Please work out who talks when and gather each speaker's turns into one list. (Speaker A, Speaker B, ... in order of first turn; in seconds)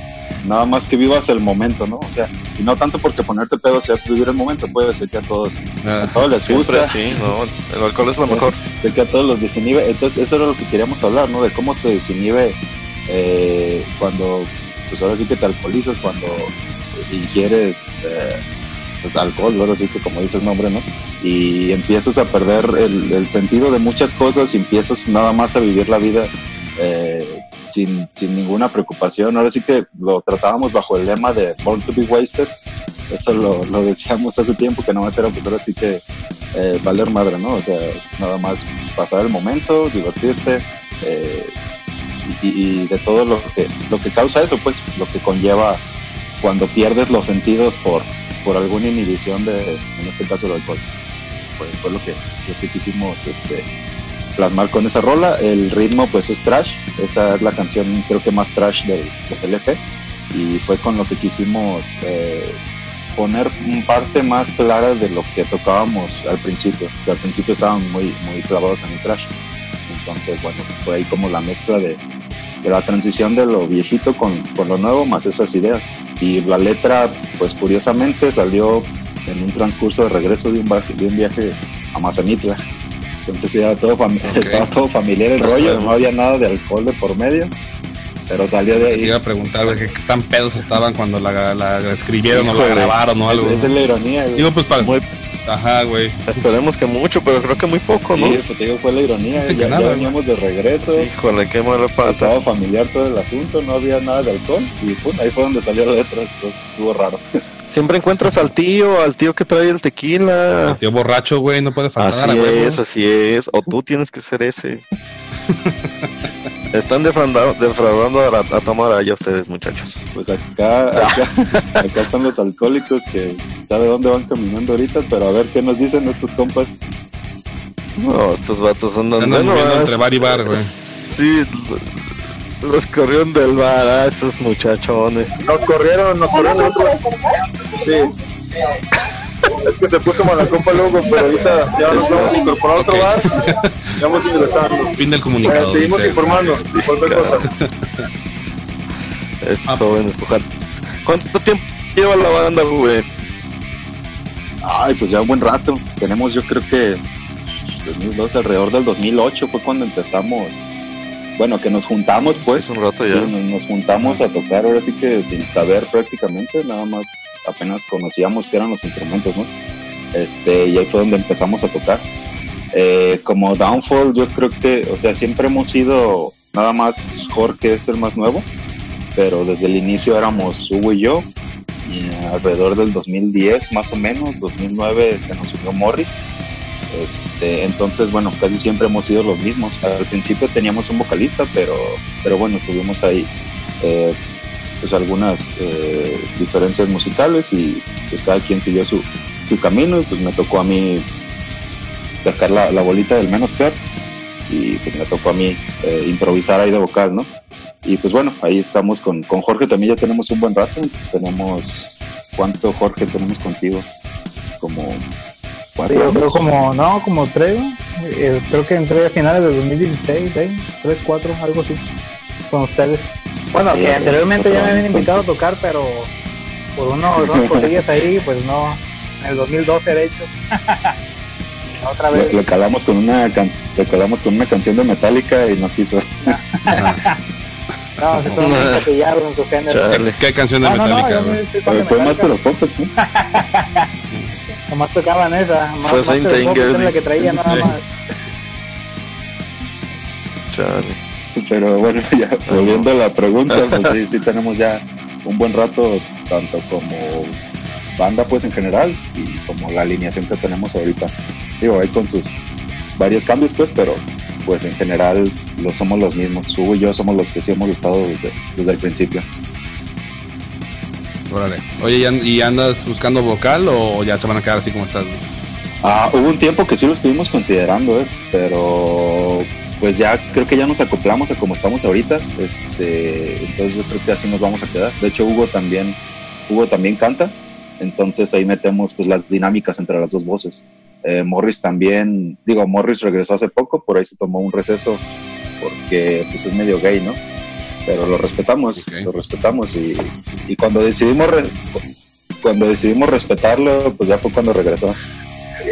Speaker A: 0.4-7.0, 8.3-18.4, 19.0-32.5, 33.1-41.5, 42.2-45.8, 46.4-50.8, 51.6-53.7, 54.4-59.8, 60.3-62.6, 63.1-69.3, 69.9-72.0, 72.6-82.6, 83.2-87.5, 88.3-89.1, 93.3-94.5, 98.1-101.1, 102.0-107.2, 120.1-126.8, 154.6-160.6, 161.4-169.5, 170.1-172.0, 172.7-178.5, 179.2-181.3, 181.8-186.2, 186.9-194.2, 194.8-201.1, 201.8-203.8, 204.5-207.3, 207.8-213.9, 214.6-215.1, 215.8-216.4, 223.7-225.3, 227.1-227.8, 232.1-236.2, 241.7-242.9, 251.4-257.4, 258.0-262.3, 262.9-269.2, 275.8-295.0, 295.6-297.2, 297.9-301.7, 302.4-305.0
Speaker B: 5.8-6.3, 84.3-84.7, 88.8-93.7, 94.3-94.9, 95.5-96.3, 99.2-100.1, 110.7-112.8, 115.6-116.0, 129.1-130.7, 142.7-144.0, 144.9-147.7, 149.7-149.9, 236.7-237.0, 238.1-238.4, 239.9-241.4, 271.3-275.2, 298.8-299.1
Speaker C: 6.4-8.6, 85.4-85.9, 92.3-93.0, 94.8-95.0, 96.3-98.4, 100.8-102.3, 107.7-110.8, 112.0-114.8, 116.7-120.0, 121.0-121.8, 128.0-132.0, 132.6-135.4, 141.9-142.3, 146.5-147.4, 149.4-153.1, 162.5-163.3, 238.4-238.9, 239.7-240.2, 245.8-247.7, 250.5-251.0, 252.5-252.8
Speaker D: 135.4-137.0, 137.7-138.1, 139.6-143.4, 144.0-147.5
Speaker E: 215.9-221.8, 222.5-226.1, 226.8-230.9, 231.8-232.4, 236.2-237.2, 238.0-239.9, 240.6-242.3, 243.0-243.9, 244.7-247.8